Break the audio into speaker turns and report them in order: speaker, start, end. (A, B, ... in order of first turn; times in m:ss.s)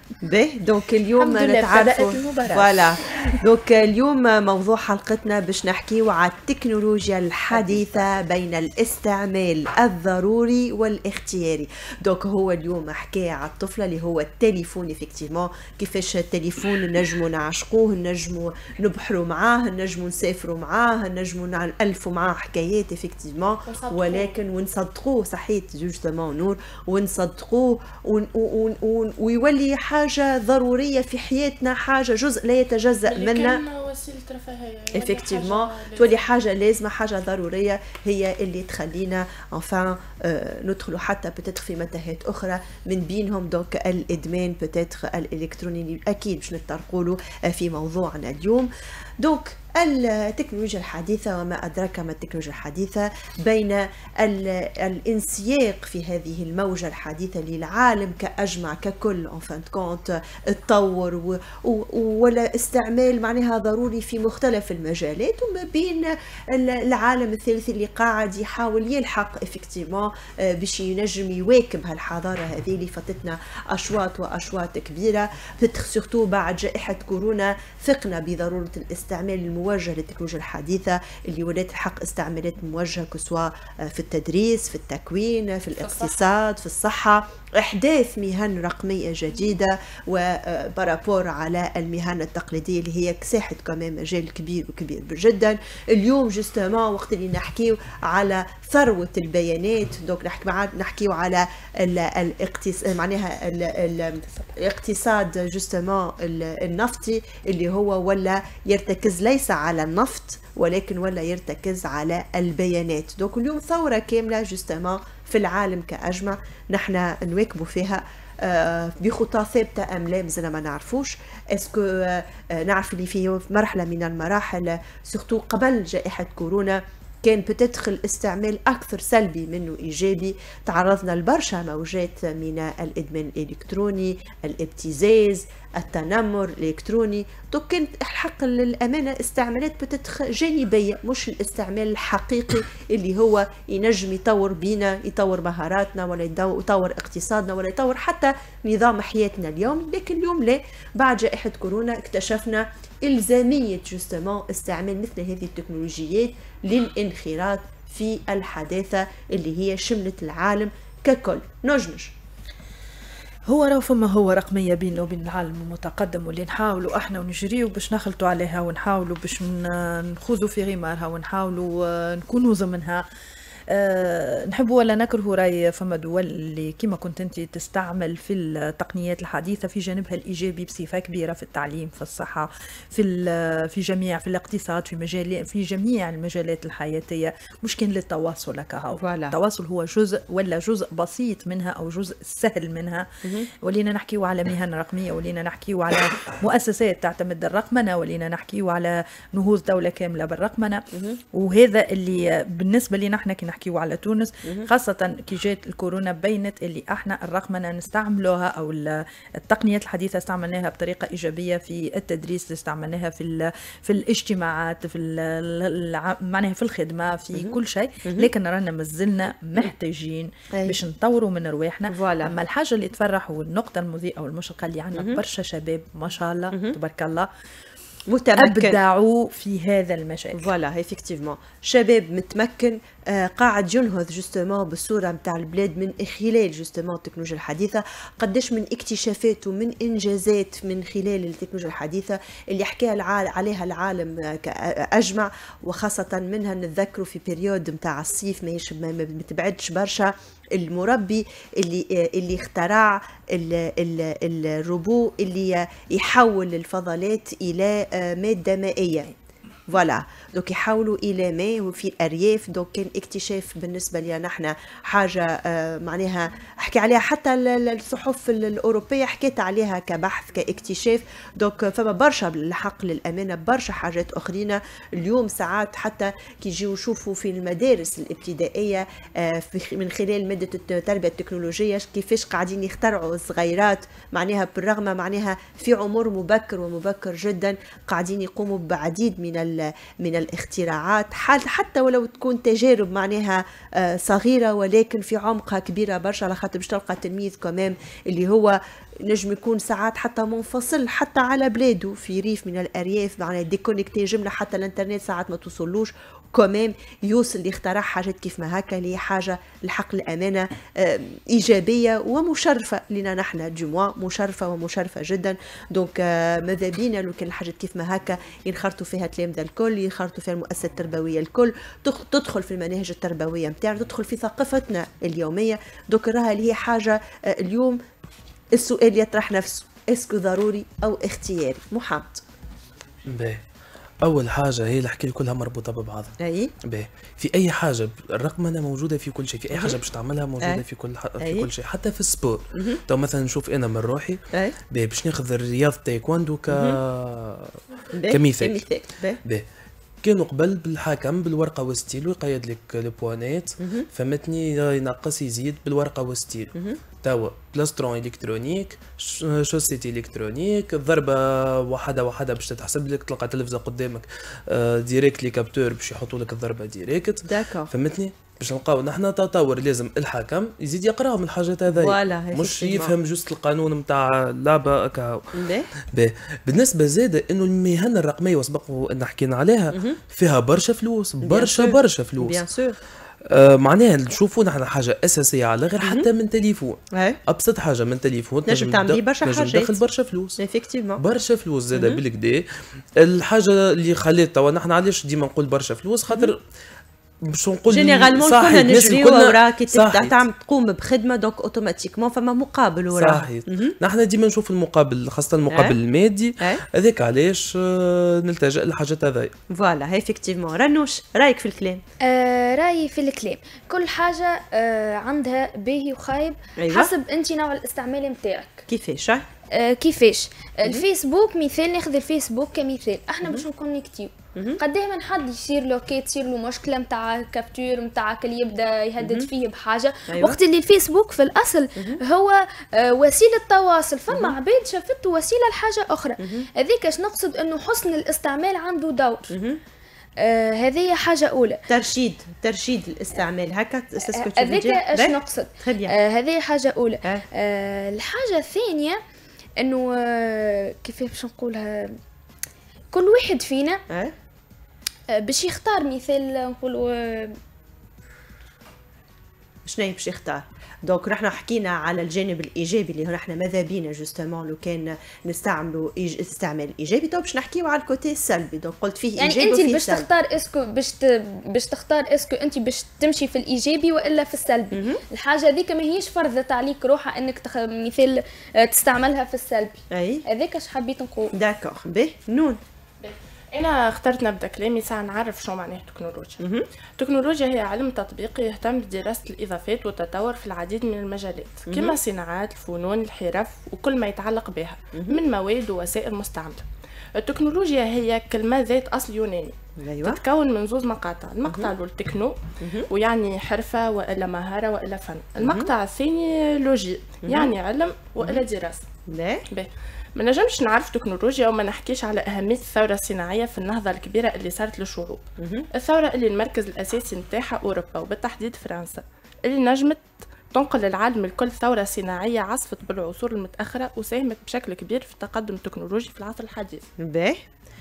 0:00.2-0:33.6 A
0:01.2-0:03.4 B
0:07.5-0:08.0 B
0:23.7-0:24.4 C
0:33.1-0:36.2 C
0:34.9-2:42.1 A
1:25.8-1:26.2 C
2:43.5-2:53.0 B
2:53.7-3:13.1 B
3:09.0-3:09.4 A
3:13.2-3:13.5 A
3:13.6-3:47.3 B
3:20.9-3:21.2 A
3:37.3-3:38.3 A
3:40.5-3:40.8 A
3:41.9-3:42.3 A
3:45.0-3:45.2 A
3:48.1-3:48.8 A
3:48.4-3:50.5 B
3:50.3-4:19.1 A
4:19.7-5:27.8 A
5:28.5-5:32.2 A
5:33.1-5:33.4 D
5:34.0-5:44.2 D
5:36.2-5:36.5 A
5:41.2-5:41.5 A
5:42.5-5:42.8 A
5:44.7-5:47.6 D
5:46.5-5:46.8 A
5:47.9-5:49.2 A
5:48.1-5:48.6 D
5:50.0-5:56.5 D
5:53.6-5:53.9 A
5:57.0-6:22.4 D
6:07.2-6:07.7 A
6:11.7-6:12.9 A
6:15.3-6:15.7 A
6:19.7-6:20.0 A
6:21.2-6:22.8 A
6:23.2-6:30.4 D
6:25.8-6:26.1 A
6:26.9-6:27.2 A
6:28.5-6:29.8 A
6:30.4-6:31.0 A
6:31.0-6:36.4 D
6:31.8-6:32.0 A
6:37.2-6:40.2 D
6:37.7-6:43.8 A
6:43.0-6:49.3 D
6:45.5-6:45.8 A
6:49.5-6:51.8 A
6:52.0-6:58.7 E
6:56.6-6:56.9 A
6:58.7-6:59.3 A
6:59.5-7:19.3 E
7:04.4-7:04.6 A
7:09.0-7:09.3 A
7:10.1-7:10.4 A
7:11.8-7:12.0 A
7:16.2-7:16.5 A
7:19.3-7:19.6 A
7:20.2-7:21.6 E
7:21.7-7:26.0 A
7:24.1-7:29.0 E
7:29.6-7:32.0 E
7:32.9-7:33.8 E
7:35.1-7:37.4 E
7:39.6-7:50.1 A
7:49.2-8:01.3 E
7:54.7-7:55.0 A
7:59.9-8:00.2 A
8:01.3-8:02.6 A
8:03.0-8:06.4 C
8:06.4-8:06.6 A
8:07.0-8:28.8 C
8:11.7-8:12.0 A
8:19.8-8:20.2 A
8:21.4-8:21.7 A
8:22.6-8:22.9 A
8:25.4-8:25.7 A
8:27.2-8:27.5 A
8:29.1-8:29.5 A
8:29.5-8:46.8 C
8:35.4-8:35.7 A
8:47.0-8:47.4 A